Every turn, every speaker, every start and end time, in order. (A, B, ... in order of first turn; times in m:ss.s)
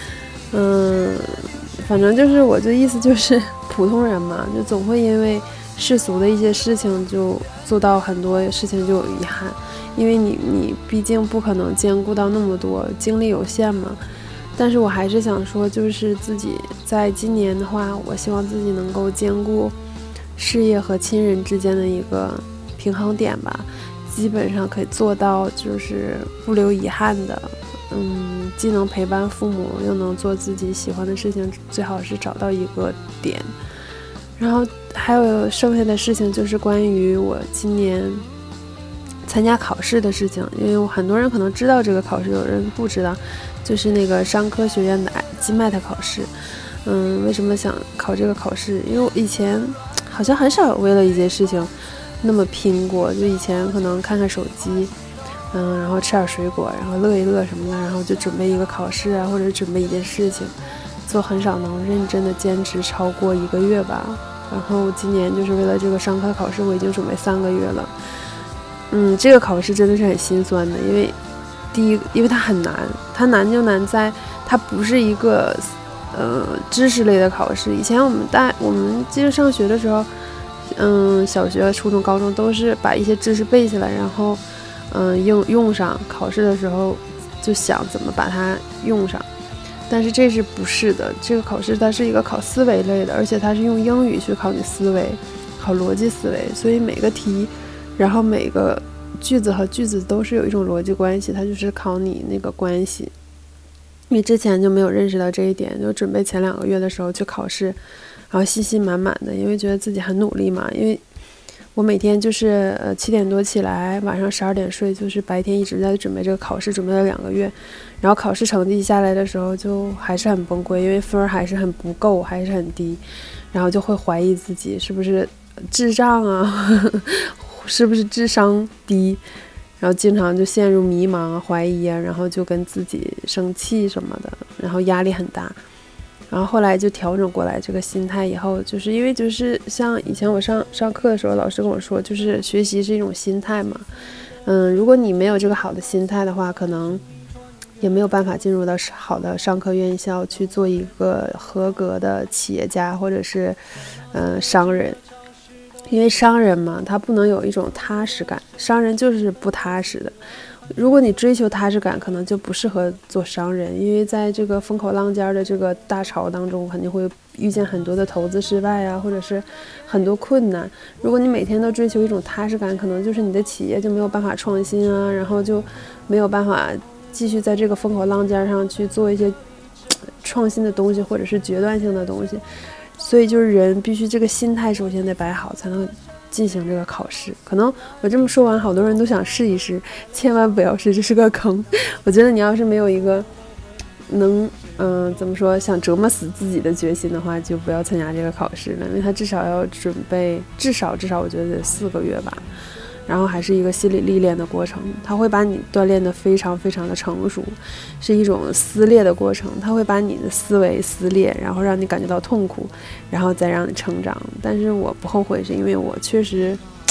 0:00.5-0:14.0 A
0:14.6-0:19.7 A
0:20.4-0:33.5 A
0:34.4-0:38.2 A
0:39.2-0:46.3 A
0:46.8-0:54.9 A
0:55.5-1:00.5 A
1:01.0-1:07.9 A
1:08.9-1:11.1 A
1:11.7-1:20.1 A
1:20.7-1:29.2 A
1:29.9-1:43.1 A
1:44.1-1:47.8 A
1:48.3-1:51.0 A
1:51.7-2:09.2 A
2:09.8-2:15.6 A
2:16.3-2:23.8 A
2:24.4-2:27.0 A
2:27.8-2:33.6 A
2:34.1-2:35.0 A
2:35.9-2:40.2 A
2:40.7-2:59.4 A
2:59.9-3:02.4 A
3:03.0-3:13.3 A
3:14.1-3:22.4 A
3:23.1-3:36.6 A